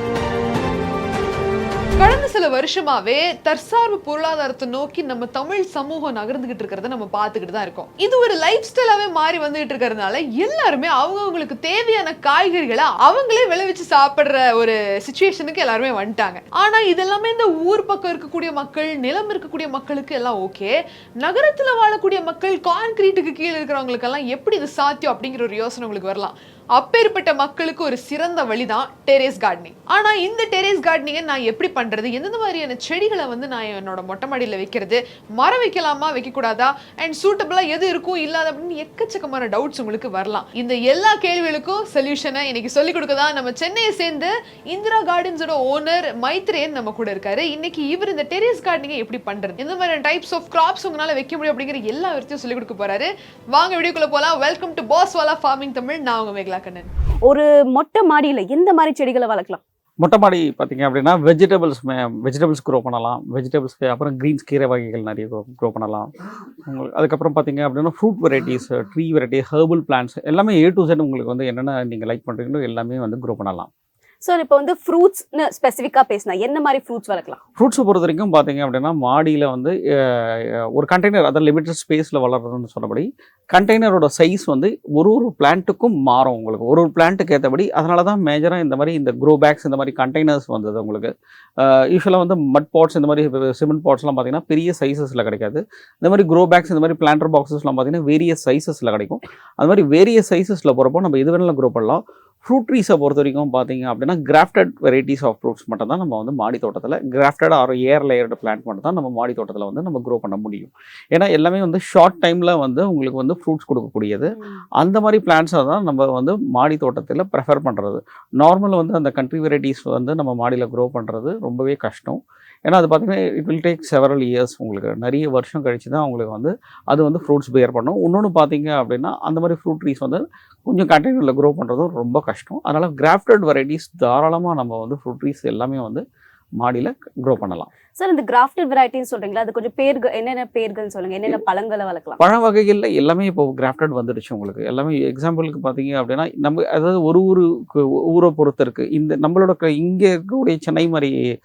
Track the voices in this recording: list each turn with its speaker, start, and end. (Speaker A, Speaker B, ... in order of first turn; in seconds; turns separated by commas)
Speaker A: 2.0-56.9, Speaker B: 57.2-59.6, Speaker C: 60.0-66.1, Speaker C: 66.6-73.7, Speaker B: 74.2-77.4, Speaker C: 77.6-136.0, Speaker C: 136.6-137.7, Speaker B: 137.9-142.2, Speaker C: 142.2-151.1